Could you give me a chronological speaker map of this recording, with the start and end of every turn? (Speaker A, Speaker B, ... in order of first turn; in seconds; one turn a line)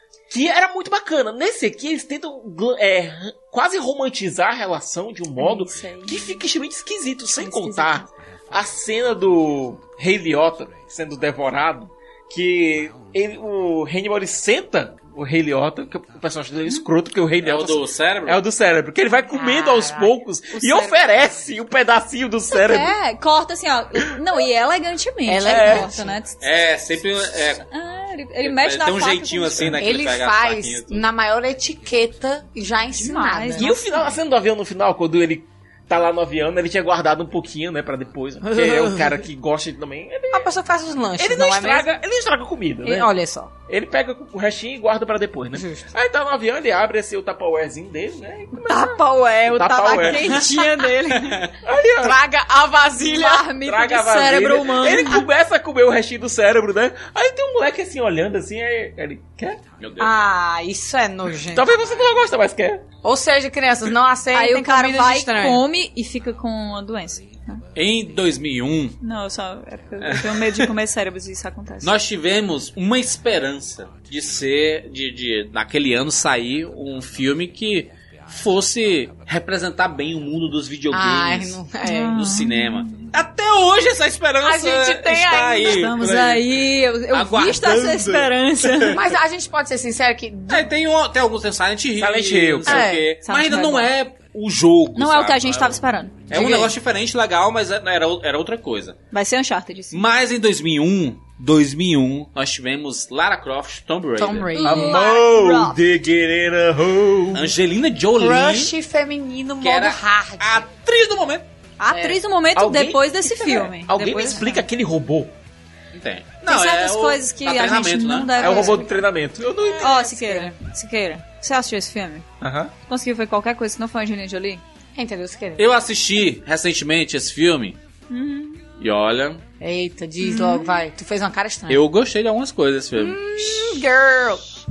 Speaker A: 0.3-22.9
Speaker B: 5.4-6.4
Speaker B: 7.3-8.1
Speaker C: 17.4-18.4
Speaker D: 19.3-21.1
Speaker B: 20.6-21.0
Speaker B: 22.5-26.4
Speaker D: 25.3-26.1
Speaker A: 25.4-26.0
Speaker C: 26.4-27.6
Speaker B: 27.7-29.8
Speaker C: 28.4-31.0
Speaker D: 29.8-33.8
Speaker B: 33.0-34.1
Speaker A: 33.5-40.5
Speaker D: 38.4-39.2
Speaker D: 40.3-41.9
Speaker A: 41.2-43.1
Speaker D: 42.8-43.5
Speaker A: 43.7-49.0
Speaker D: 45.5-45.9
Speaker B: 48.7-51.0
Speaker D: 48.7-51.5
Speaker A: 49.5-50.4
Speaker A: 51.6-52.2
Speaker D: 52.0-54.0
Speaker B: 53.1-55.2
Speaker A: 53.6-59.6
Speaker C: 59.8-60.1
Speaker D: 60.0-61.7
Speaker A: 61.5-62.9
Speaker D: 63.0-65.6
Speaker B: 64.3-67.6
Speaker C: 67.8-69.0
Speaker B: 69.0-71.9
Speaker C: 70.0-70.7
Speaker C: 71.8-81.6
Speaker D: 80.9-82.2
Speaker B: 81.8-83.1
Speaker C: 82.1-88.9
Speaker D: 84.4-86.0
Speaker B: 85.6-89.0
Speaker D: 88.9-90.7
Speaker C: 90.5-99.0
Speaker A: 92.0-92.9
Speaker D: 92.7-93.1
Speaker B: 93.2-93.9
Speaker B: 95.0-96.6
Speaker D: 96.3-96.7
Speaker B: 99.1-100.0
Speaker C: 99.9-104.7
Speaker D: 104.2-105.2
Speaker B: 104.5-105.8
Speaker A: 104.7-107.5
Speaker C: 107.3-108.7
Speaker D: 108.2-110.7
Speaker C: 109.6-111.5
Speaker B: 111.8-114.6
Speaker D: 111.9-112.2
Speaker A: 112.5-115.3
Speaker C: 115.9-118.7
Speaker B: 116.4-119.0
Speaker A: 118.4-120.0
Speaker D: 119.6-120.5
Speaker B: 119.8-122.3
Speaker A: 122.4-122.7
Speaker B: 122.9-124.6
Speaker D: 125.0-125.6
Speaker C: 125.6-127.8
Speaker B: 128.1-128.6
Speaker C: 128.8-129.4
Speaker D: 129.6-131.8
Speaker B: 130.2-130.7
Speaker C: 131.7-133.2
Speaker D: 133.0-134.6
Speaker B: 133.4-133.8